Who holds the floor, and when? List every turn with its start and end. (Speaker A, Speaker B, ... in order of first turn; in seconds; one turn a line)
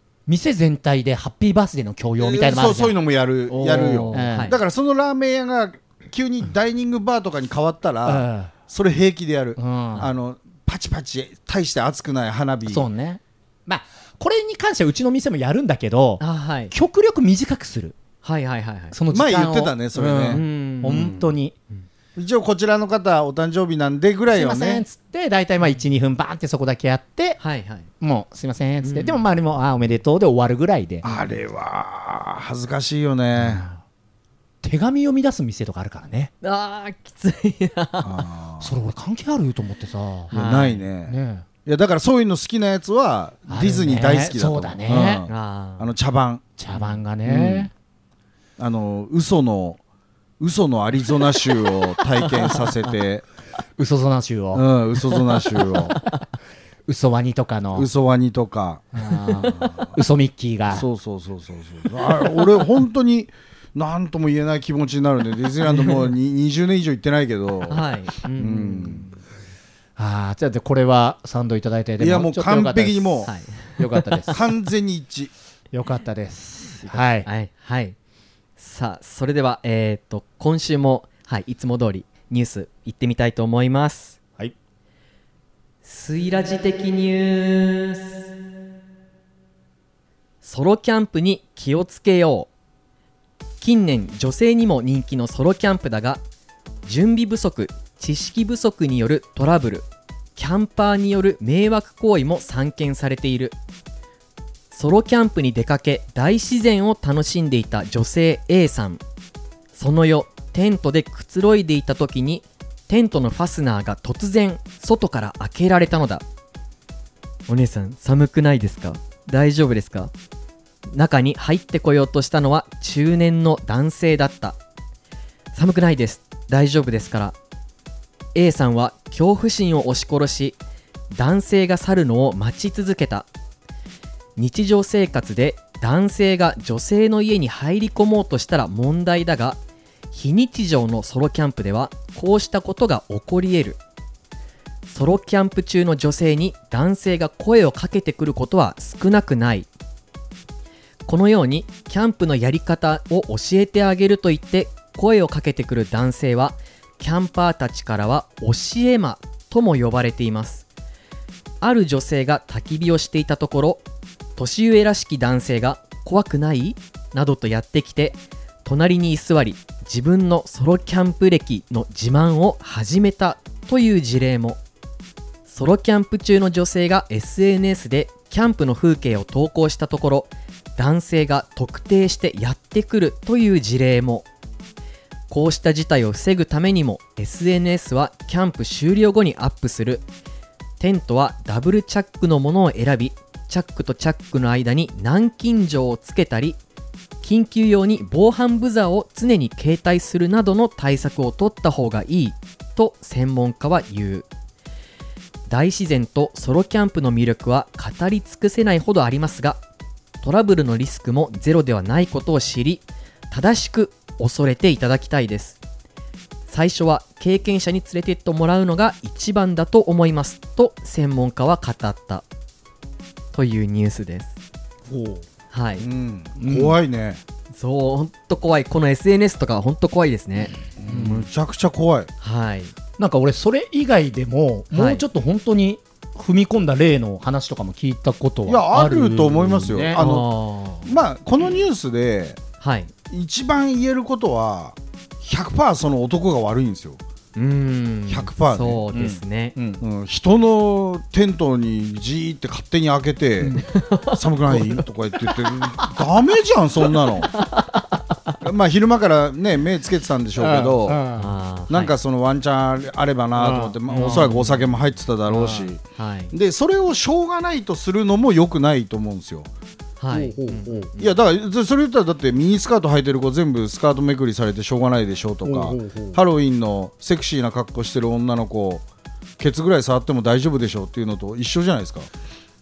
Speaker A: 0.3-3.0
Speaker B: 2.2-12.9
Speaker C: 3.5-4.6
Speaker A: 4.1-4.5
Speaker A: 8.1-8.5
Speaker A: 9.6-10.1
Speaker A: 12.7-18.0
Speaker C: 16.2-16.7
Speaker C: 18.2-19.0
Speaker A: 18.9-21.5
Speaker B: 19.1-21.2
Speaker C: 20.3-21.2
Speaker B: 22.2-24.8
Speaker A: 24.3-27.4
Speaker C: 27.4-27.9
Speaker A: 28.0-31.0
Speaker C: 28.8-29.2
Speaker B: 31.0-33.7
Speaker A: 33.4-33.8
Speaker A: 34.6-36.3
Speaker C: 36.4-38.2
Speaker B: 38.0-38.7
Speaker A: 38.6-40.3
Speaker C: 40.3-40.8
Speaker B: 40.3-46.4
Speaker A: 41.1-41.5
Speaker A: 43.5-45.2
Speaker C: 45.3-45.9
Speaker A: 46.6-47.7
Speaker C: 46.7-47.0
Speaker B: 47.3-47.7
Speaker B: 48.6-49.8
Speaker B: 50.4-53.2
Speaker A: 53.8-54.7
Speaker B: 54.5-56.0
Speaker A: 56.9-57.9
Speaker B: 57.7-58.9
Speaker A: 59.0-60.9
Speaker B: 59.4-59.9
Speaker B: 60.7-67.8
Speaker C: 67.7-69.2
Speaker B: 68.4-69.1
Speaker A: 70.0-73.3
Speaker B: 72.0-73.3
Speaker C: 73.3-74.4
Speaker A: 73.8-74.4
Speaker B: 74.3-75.3
Speaker A: 75.7-77.3
Speaker C: 76.8-78.0
Speaker C: 78.6-84.2
Speaker C: 85.8-88.2
Speaker C: 90.4-92.5
Speaker C: 93.6-96.2
Speaker C: 96.8-103.5
Speaker C: 104.7-109.0
Speaker C: 109.8-116.2
Speaker C: 117.5-120.1
Speaker C: 120.9-124.6
Speaker C: 125.5-127.3
Speaker C: 128.3-130.6
Speaker C: 131.1-133.3
Speaker C: 134.4-139.6
Speaker C: 140.1-143.8
Speaker C: 144.9-149.7
Speaker C: 151.1-160.7
Speaker C: 161.6-163.8
Speaker C: 164.4-174.6
Speaker C: 175.5-184.3
Speaker C: 185.3-190.1
Speaker C: 190.8-196.6
Speaker C: 197.2-204.3
Speaker C: 205.5-209.6
Speaker C: 210.2-215.6
Speaker C: 216.5-222.2
Speaker C: 223.3-224.3
Speaker A: 224.9-225.2
Speaker C: 225.5-225.9
Speaker B: 225.8-227.2
Speaker A: 226.4-226.8
Speaker C: 227.5-230.6
Speaker B: 230.8-232.1
Speaker A: 230.9-231.2
Speaker C: 232.2-232.7
Speaker A: 233.0-240.0
Speaker C: 234.7-235.0
Speaker B: 238.5-240.3
Speaker C: 240.0-240.9
Speaker B: 240.8-242.4
Speaker C: 242.6-242.9
Speaker B: 243.1-247.0
Speaker C: 247.4-249.6
Speaker B: 248.1-248.8
Speaker A: 248.9-249.8
Speaker B: 249.8-257.3
Speaker C: 253.7-254.8
Speaker C: 257.4-257.8
Speaker B: 258.4-261.0
Speaker A: 260.4-261.3
Speaker C: 261.2-261.9
Speaker B: 261.7-269.5
Speaker A: 263.4-264.4
Speaker C: 263.9-264.7
Speaker C: 265.9-266.3
Speaker C: 270.0-271.1
Speaker A: 270.1-270.9
Speaker B: 271.0-278.9
Speaker A: 275.4-276.2
Speaker B: 279.4-282.1